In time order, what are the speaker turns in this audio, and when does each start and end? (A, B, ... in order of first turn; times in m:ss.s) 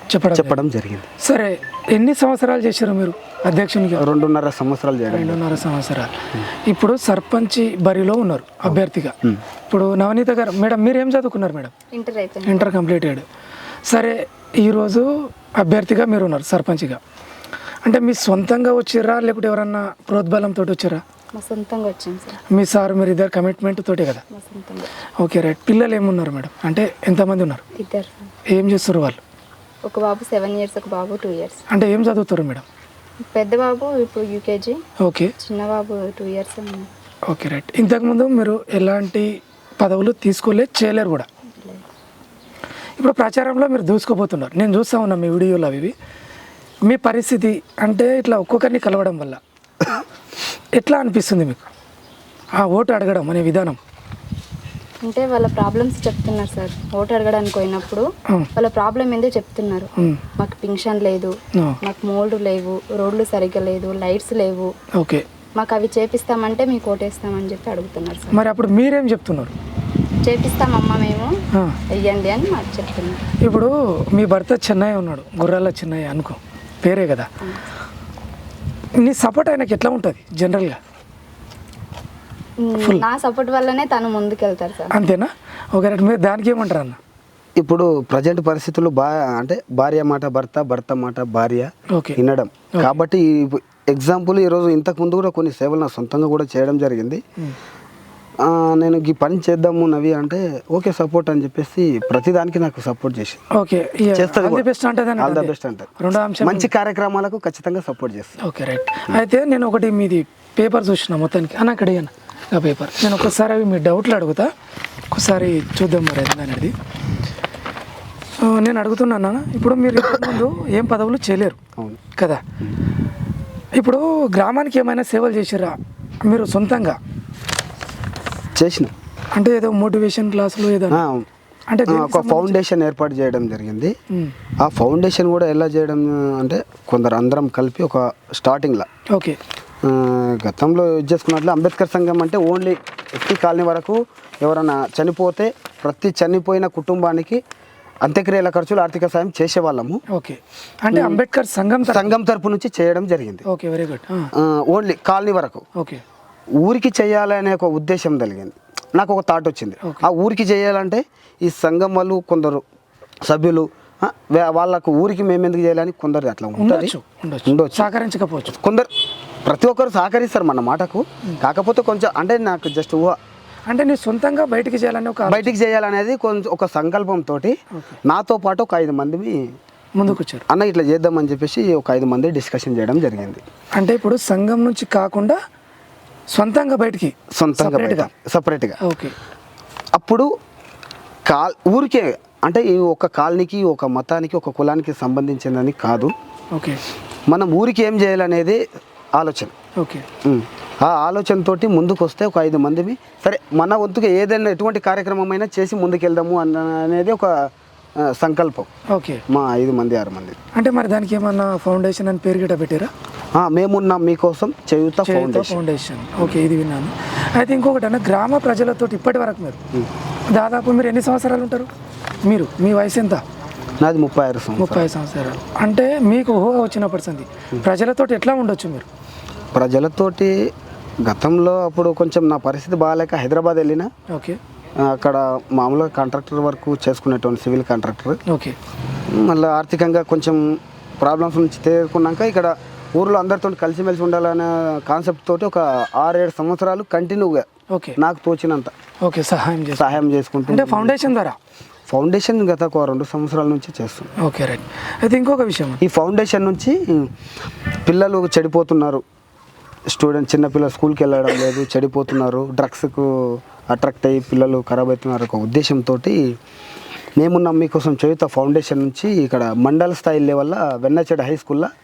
0:00.1-0:00.6 A
0:00.3-0:01.1 B
0:01.2-0:04.0 A
0:04.0-0:05.6 B
0:05.1-0:09.2 A
0:09.7-0:11.7 A
0:11.9-0:12.7 C
0:12.4-0:13.2 A
0:13.9-0:17.0 A
0:17.8-0:21.0 A
0:21.3-0:22.4 C
0:22.5-0:24.2 A
0:24.3-0:24.9 C
0:25.2-0:27.6 A
0:27.8-0:28.3 C
0:28.5-0:29.2 A
0:29.8-0:31.6 C
0:31.7-0:32.6 A
0:33.2-0:34.8 C
0:35.0-0:35.3 A
0:35.4-0:36.9 C
0:37.3-0:41.3 A
0:43.0-0:45.9 A
0:46.8-0:49.4 A
0:50.7-0:51.6 A
0:52.6-0:53.8 A
0:55.0-0:58.0 C
0:58.5-1:04.7 C
1:01.5-1:01.8 A
1:04.9-1:05.2 A
1:05.6-1:08.4 C
1:08.3-1:09.5 A
1:10.2-1:11.3 C
1:12.0-1:13.2 C
1:13.4-1:17.3 A
1:19.0-1:20.8 A
1:22.6-1:24.9 C
1:24.9-1:27.0 A
1:27.6-1:37.2 B
1:31.9-1:32.2 A
1:38.4-1:43.4 B
1:43.5-1:46.7 A
1:44.1-1:48.4 B
1:48.4-1:54.5 A
1:55.1-1:56.7 A
1:58.4-2:01.6 A
2:02.2-2:02.4 A
2:03.8-2:07.0 A
2:08.6-2:08.9 B
2:09.3-2:11.0 A
2:10.9-2:11.3 B
2:11.7-2:12.6 A
2:11.9-2:13.9 B
2:14.6-2:18.9 B
2:19.1-2:19.4 A
2:19.8-2:27.4 B
2:28.0-2:30.0 B
2:30.1-2:32.1 A
2:30.9-2:31.2 B
2:31.8-2:33.4 B
2:33.4-2:34.3 A
2:34.3-2:35.6 B
2:35.8-2:36.0 A
2:36.6-2:42.6 B
2:43.2-2:46.9 B
2:46.6-2:48.6 A
2:47.4-2:47.9 B
2:48.6-2:48.9 B
2:49.4-2:53.2 B
2:53.7-2:55.5 A
2:55.2-2:59.5 B
3:00.0-3:00.4 A
3:00.1-3:03.4 B
3:03.7-3:05.4 A
3:06.3-3:08.1 A
3:07.3-3:08.8 B
3:08.8-3:09.1 A
3:09.9-3:10.3 B
3:11.2-3:16.1 B
3:16.5-3:16.8 A
3:17.3-3:18.6 B
3:19.1-3:19.5 B
3:19.8-3:20.0 A
3:20.2-3:28.7 B
3:28.9-3:29.2 A
3:29.3-3:30.4 B
3:30.5-3:32.9 A
3:33.4-3:35.6 B
3:35.0-3:39.6 A
3:40.3-3:41.7 A
3:42.2-3:43.2 A
3:43.8-3:44.8 B
3:44.6-3:48.9 A
3:49.5-3:50.5 B
3:51.0-3:53.9 B
3:54.1-3:54.4 A
3:54.8-3:58.2 B
3:58.2-3:58.6 A
3:59.1-4:07.5 B
4:07.7-4:08.0 A
4:08.0-4:08.7 B
4:09.0-4:09.9 A
4:09.7-4:11.0 B
4:10.5-4:11.4 A
4:11.9-4:14.1 B
4:14.2-4:15.8 A
4:15.8-4:17.1 B
4:17.8-4:19.0 B
4:19.9-4:26.3 B
4:27.2-4:31.7 B